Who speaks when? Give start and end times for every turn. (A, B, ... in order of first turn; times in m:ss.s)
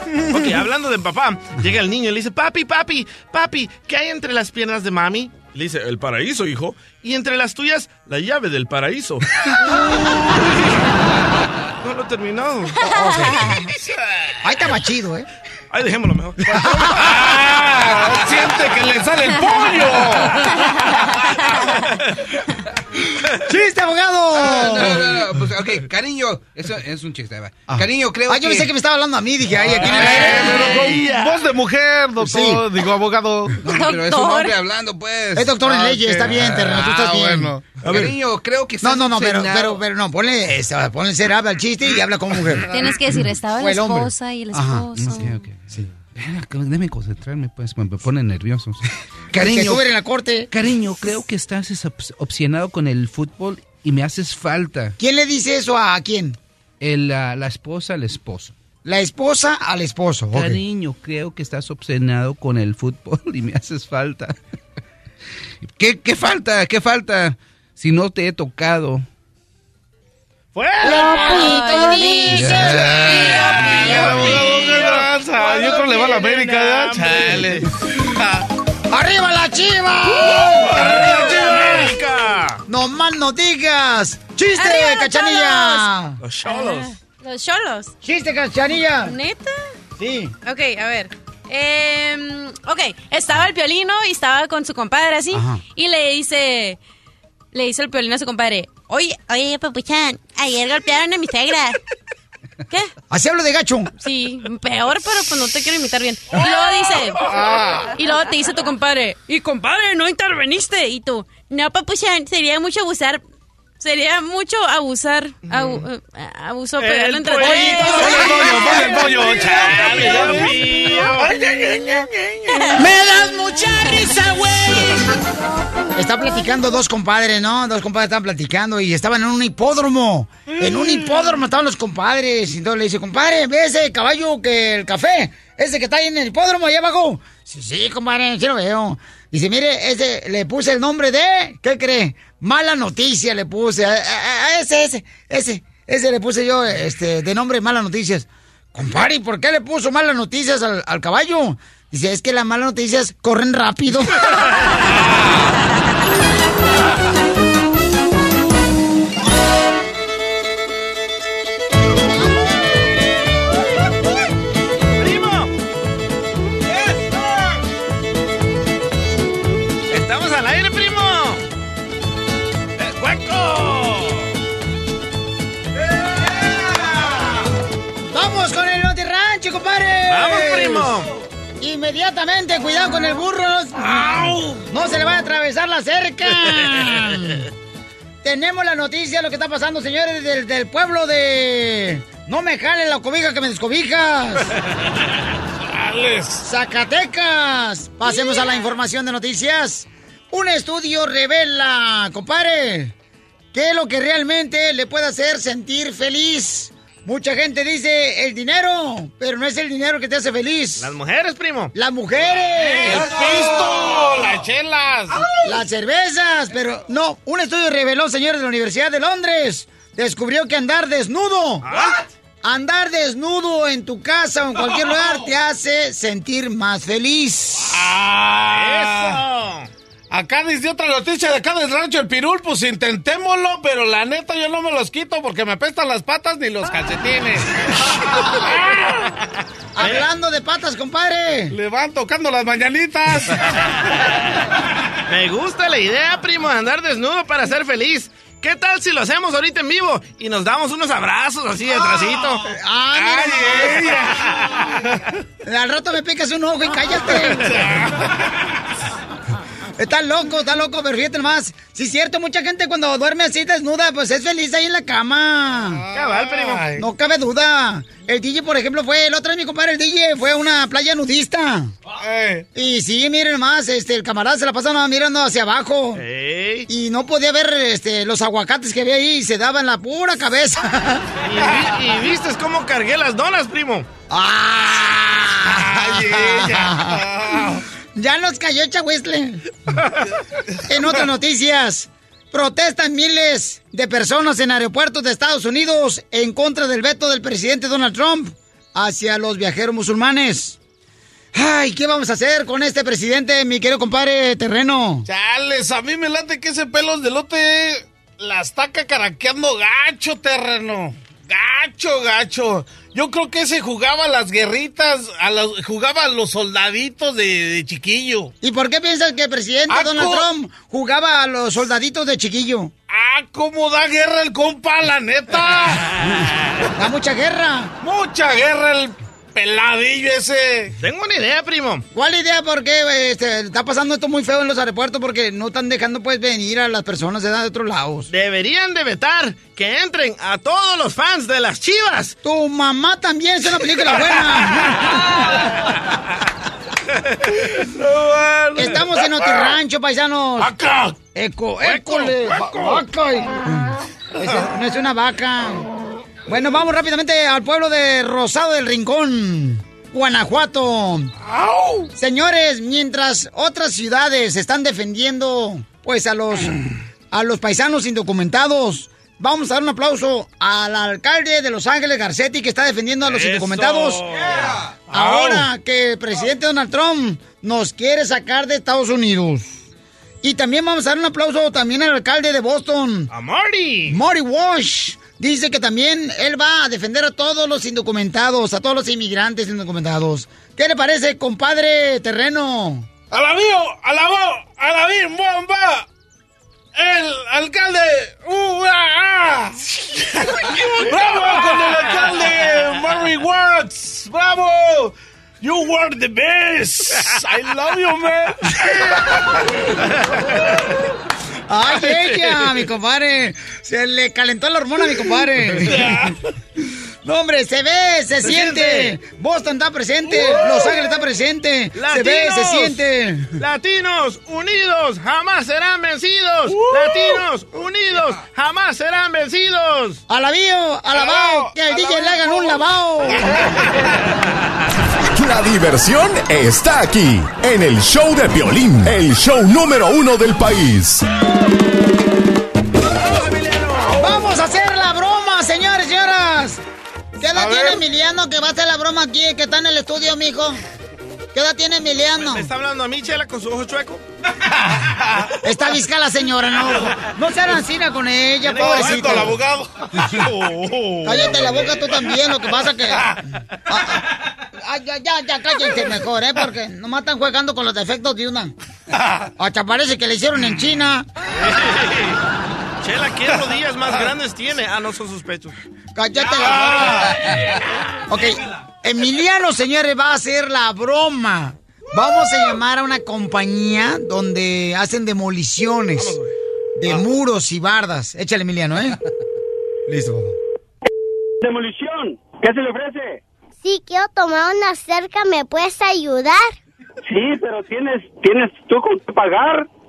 0:00.2-0:09.3 A
0:11.8-0:12.9 A
0:12.9-0:13.6 B
0:14.4-0:15.3 B
0:15.7-0:17.2 A
0:16.5-0:17.1 B
0:16.9-0:20.5 C
0:23.4-0:25.0 B
0:24.4-0:28.7 D
0:27.7-0:30.9 B
0:29.8-0:33.6 C
0:29.9-0:30.3 D
0:29.9-0:31.4 A
0:32.2-0:32.6 B
0:33.6-0:37.3 D
0:33.6-0:34.6 E
0:35.3-0:38.2 B
0:37.1-0:37.8 C
0:37.8-0:39.8 D
0:38.8-0:42.8 B
0:42.7-0:45.4 E
0:43.6-0:45.9 B
0:45.0-0:45.6 D
0:46.1-0:49.9 D
0:49.3-0:50.5 B
0:50.5-0:55.0 D
0:55.0-0:56.4 B
0:56.8-0:58.5 D
0:58.8-1:00.6 B
1:00.3-1:04.3 D
1:05.8-1:09.0 D
1:10.5-1:11.5 A
1:10.8-1:13.7 E
1:10.8-1:14.4 B
1:11.1-1:12.0 F
1:12.3-1:13.3 D
1:13.3-1:17.6 A
1:13.7-1:18.4 C
1:18.9-1:21.7 B
1:20.4-1:22.6 A
1:21.0-1:21.8 C
1:22.7-1:26.2 B
1:24.5-1:25.9 E
1:26.2-1:26.9 A
1:26.4-1:27.9 E
1:28.0-1:29.1 B
1:29.0-1:29.5 E
1:30.0-1:30.3 B
1:30.4-1:36.8 E
1:35.3-1:35.6 B
1:37.5-1:41.8 E
1:43.1-1:43.9 B
1:44.0-1:47.2 E
1:47.3-1:47.9 C
1:47.9-1:53.2 E
1:53.8-1:59.3 E
1:55.5-1:55.9 A
1:56.8-2:01.4 A
1:57.5-1:59.0 B
1:58.1-2:00.6 C
2:01.1-2:04.9 C
2:02.5-2:03.0 E
2:03.6-2:04.2 E
2:05.9-2:34.3 B
2:45.0-2:45.5 A
2:49.9-2:51.4 A
2:52.8-2:54.3 A
2:58.1-3:00.9 B
3:00.1-3:01.1 A
3:01.6-3:07.5 B
3:08.2-3:14.5 B
3:15.6-3:16.4 C
3:16.4-3:22.9 B
3:23.5-3:30.9 B
3:30.8-3:31.7 A
3:31.7-3:33.9 B
3:32.8-3:35.3 C
3:35.4-3:41.6 B
3:41.6-3:42.0 A
3:42.4-3:47.8 B
3:47.7-3:49.2 C
3:48.5-3:49.7 A
3:50.1-3:57.5 C
3:59.8-4:01.5 B
3:59.8-4:00.0 A
4:01.5-4:03.4 C
4:05.1-4:12.5 A
4:12.5-4:13.9 B
4:13.0-4:14.5 C
4:15.4-4:17.7 B
4:19.8-4:25.8 B
4:25.8-4:26.8 C
4:25.9-4:26.8 A
4:26.7-4:31.7 B
4:32.0-4:32.4 C
4:32.5-4:36.0 B
4:35.9-4:36.7 A
4:36.7-4:41.0 B
4:41.2-4:43.8 A
4:44.1-4:49.4 B
4:45.5-4:47.6 C
4:50.7-5:00.6 B
5:01.3-5:05.1 B
5:05.0-5:18.3 C
5:18.4-5:22.7 B
5:19.7-5:20.2 C
5:22.9-5:25.9 C
5:26.8-5:27.7 B
5:27.8-5:30.7 C
5:30.8-5:31.8 A
5:31.9-5:38.1 B
5:38.1-5:42.1 A
5:42.2-5:45.1 B
5:47.6-5:49.3 C
5:48.6-5:50.5 B
5:50.5-5:50.9 C
5:51.1-5:55.6 B
5:51.6-5:52.1 A
5:52.5-5:52.8 C
5:56.3-6:01.1 B
6:01.4-6:01.8 C
6:02.0-6:06.6 B
6:07.1-6:14.0 B
6:13.0-6:15.4 A
6:14.9-6:19.6 B
6:20.2-6:23.1 B
6:23.1-6:24.0 A
6:23.9-6:32.9 B
6:33.1-6:35.8 C
6:36.7-6:48.5 C
6:51.5-6:56.1 B
6:51.9-6:52.1 A
6:55.6-6:56.2 C
6:57.0-7:03.3 B
6:58.2-6:58.9 A
7:01.8-7:02.8 A
7:03.4-7:10.0 A
7:06.5-7:07.1 C
7:10.1-7:13.4 B
7:11.0-7:12.5 C
7:15.2-7:21.0 G
7:23.0-7:24.1 A
7:23.9-7:26.6 B
7:27.2-7:30.6 B
7:31.3-7:32.5 B
7:32.2-7:34.0 A
7:34.9-7:35.3 C
7:35.4-7:39.4 B
7:38.4-7:39.3 A
7:38.5-7:39.7 C
7:40.1-7:41.6 A
7:41.0-7:43.2 B
7:43.7-7:44.0 B
7:44.6-7:48.5 B
7:49.0-7:49.2 C
7:49.4-7:51.1 B
7:51.4-7:52.2 A
7:52.8-7:55.6 A
7:56.0-7:57.2 B
7:58.1-8:06.2 B
8:06.0-8:06.3 A
8:06.8-8:09.0 B
8:09.9-8:10.4 B
8:11.4-8:13.2 H
8:13.6-8:16.5 F
8:17.0-8:19.7 H